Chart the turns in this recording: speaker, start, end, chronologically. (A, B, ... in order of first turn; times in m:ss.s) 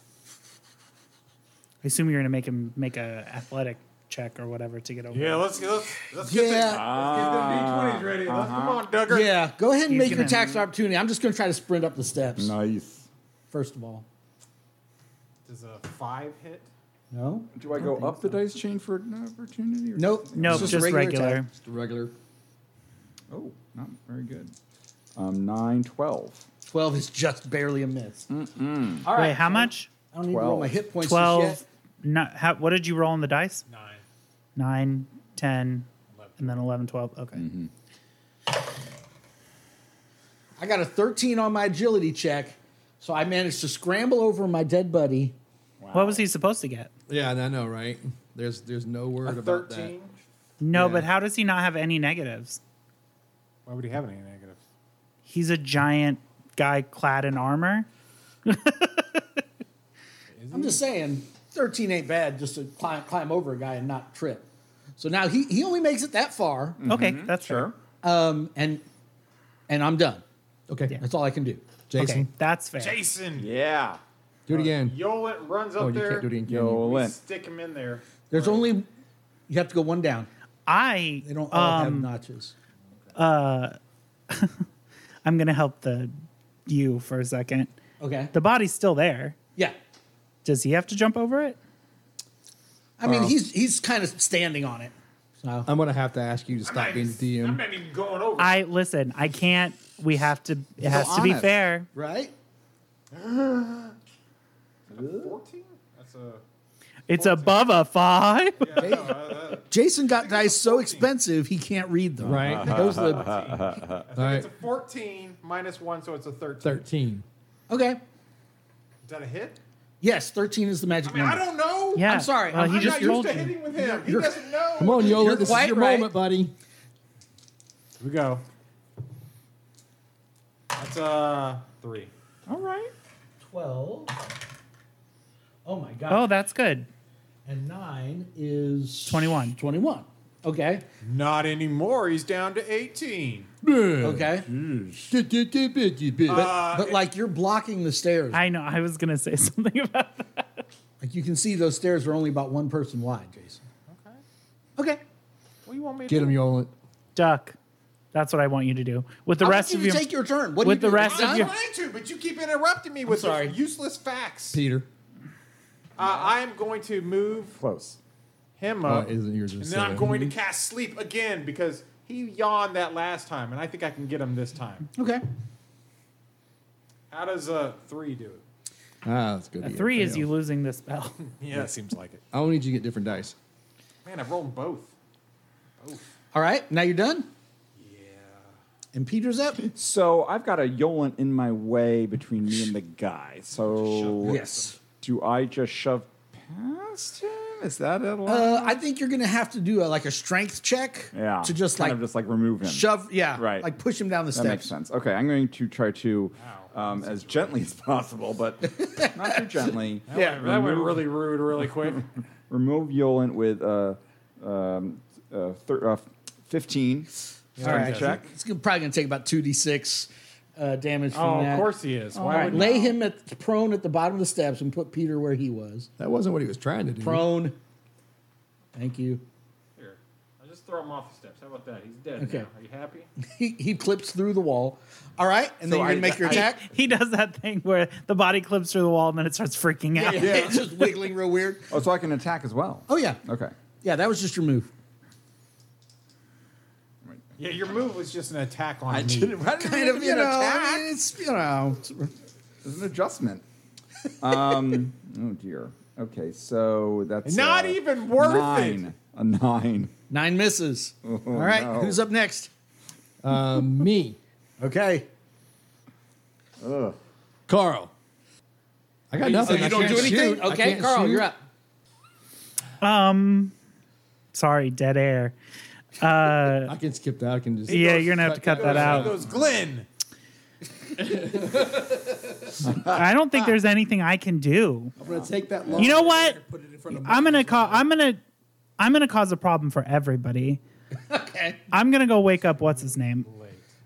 0:01.8-0:05.5 A
0:05.1-0:09.4 B
0:06.2-0:06.9 C
0:06.7-0:08.9 D
0:09.1-0:12.5 C
0:09.9-0:10.5 A
0:10.0-0:10.7 D
0:12.4-0:13.1 D
0:13.5-0:14.1 C
0:15.4-0:16.7 B
0:17.1-0:18.1 C
0:17.6-0:20.9 D
0:20.0-0:21.4 C
0:20.4-0:21.5 A
0:20.5-0:20.8 E
0:21.5-0:22.1 E
0:23.3-0:24.5 D
0:25.2-0:26.5 D
0:26.7-0:28.3 C
0:28.3-0:29.1 D
0:29.0-0:31.6 C
0:29.1-0:29.9 A
0:30.3-0:30.7 D
0:31.0-0:33.6 A
0:33.7-0:34.0 B
0:34.6-0:35.9 A
0:36.1-0:36.6 B
0:36.4-0:37.5 A
0:37.4-0:37.7 D
0:40.6-0:45.4 C
0:45.8-0:46.3 D
0:45.9-0:46.9 A
0:47.1-0:49.9 E
0:49.2-0:50.1 B
0:50.6-0:52.6 A
0:50.7-0:51.1 E
0:53.7-0:54.6 B
0:55.3-0:57.9 A
0:58.5-0:59.4 A
1:00.3-1:00.8 B
1:00.5-1:04.4 C
1:05.0-1:06.8 C
1:06.8-1:07.8 D
1:06.8-1:07.7 A
1:08.0-1:08.8 C
1:09.7-1:10.2 C
1:10.7-1:11.0 E
1:11.0-1:11.7 C
1:11.9-1:12.3 E
1:12.0-1:13.0 A
1:12.8-1:13.5 B
1:13.4-1:14.0 D
1:14.5-1:15.0 E
1:14.5-1:18.6 B
1:15.8-1:16.8 E
1:16.5-1:17.2 D
1:18.3-1:18.9 C
1:19.5-1:20.3 C
1:20.7-1:22.1 A
1:21.2-1:22.5 C
1:23.2-1:23.8 A
1:24.3-1:24.6 A
1:25.2-1:26.1 A
1:26.7-1:27.7 A
1:28.0-1:28.3 C
1:28.3-1:29.4 A
1:30.4-1:31.6 A
1:33.0-1:35.7 C
1:33.0-1:33.3 E
1:35.7-1:37.6 E
1:36.7-1:38.6 B
1:38.4-1:41.9 A
1:40.8-1:41.6 D
1:41.9-1:42.3 C
1:43.1-1:44.0 B
1:44.9-1:46.4 B
1:44.9-1:45.3 C
1:47.1-1:48.9 A
1:47.2-1:47.7 B
1:48.6-1:51.1 B
1:48.8-1:53.4 C
1:52.2-1:52.8 E
1:52.5-1:56.8 B
1:52.5-1:54.0 D
1:54.2-1:54.5 E
1:56.6-1:57.2 E
1:57.7-1:58.0 C
1:59.0-1:59.6 B
2:00.0-2:06.1 C
2:01.0-2:05.6 B
2:02.0-2:03.6 A
2:04.8-2:06.5 E
2:08.0-2:08.4 B
2:10.7-2:12.1 B
2:12.5-2:12.9 D
2:13.4-2:14.1 C
2:15.6-2:16.3 C
2:16.1-2:16.9 A
2:17.4-2:20.8 C
2:19.1-2:19.6 A
2:21.0-2:23.5 B
2:23.6-2:24.4 E
2:24.0-2:25.0 C
2:25.1-2:26.5 E
2:26.3-2:27.0 B
2:26.3-2:28.4 C
2:28.3-2:30.6 A
2:31.0-2:33.6 C
2:33.9-2:34.2 B
2:35.7-2:36.4 B
2:36.1-2:36.7 E
2:37.2-2:37.6 A
2:38.1-2:40.1 A
2:39.4-2:41.5 C
2:40.6-2:41.5 A
2:41.0-2:44.6 B
2:43.1-2:43.6 C
2:44.5-2:44.9 E
2:46.0-2:47.6 B
2:46.0-2:46.3 D
2:47.5-2:48.0 D
2:48.6-2:54.9 B
2:48.8-2:50.3 E
2:55.0-2:55.2 C
2:57.1-2:58.4 B
2:59.0-3:00.3 E
2:59.6-3:01.2 A
3:01.2-3:02.2 B
3:02.3-3:03.4 E
3:04.0-3:04.9 B
3:06.3-3:07.3 C
3:07.8-3:08.5 B
3:08.9-3:09.6 C
3:09.6-3:14.4 D
3:13.6-3:14.8 B
3:14.2-3:14.8 C
3:15.0-3:18.8 D
3:18.3-3:22.0 C
3:21.1-3:23.7 D
3:22.6-3:24.7 C
3:24.3-3:31.1 D
3:26.4-3:27.7 B
3:28.8-3:30.5 C
3:30.1-3:32.1 B
3:32.5-3:38.3 D
3:37.6-3:38.2 B
3:37.6-3:45.9 C
3:41.1-3:42.9 B
3:42.3-3:42.7 E
3:46.0-3:47.3 E
3:47.0-3:47.6 C
3:48.7-3:49.2 C
3:49.8-3:53.1 B
3:52.2-3:52.5 C
3:53.2-3:56.6 C
3:55.6-3:56.5 D
3:56.2-4:00.6 A
4:00.0-4:01.7 C
4:00.2-4:00.7 E
4:01.7-4:03.5 D
4:02.9-4:03.2 C
4:03.8-4:04.7 C
4:07.0-4:07.4 D
4:07.4-4:09.4 B
4:08.9-4:10.2 E
4:09.0-4:12.1 C
4:09.9-4:10.9 D
4:12.6-4:13.4 D
4:14.2-4:19.9 D
4:17.2-4:18.9 B
4:20.1-4:22.5 C
4:21.0-4:22.0 D
4:23.2-4:24.2 E
4:24.6-4:25.1 C
4:26.6-4:27.0 D
4:27.5-4:27.9 E
4:29.1-4:31.3 E
4:29.2-4:31.4 C
4:29.2-4:30.2 B
4:32.8-4:33.5 A
4:34.3-4:35.4 A
4:36.0-4:36.8 A
4:36.6-4:39.3 E
4:37.7-4:39.9 B
4:37.7-4:39.2 A
4:41.0-4:42.7 E
4:42.8-4:44.9 A
4:45.0-4:47.8 E
4:45.8-4:46.4 A
4:46.9-4:48.2 A
4:48.8-4:50.6 A
4:51.1-4:51.6 C
4:51.7-4:53.3 A
4:52.6-4:53.7 B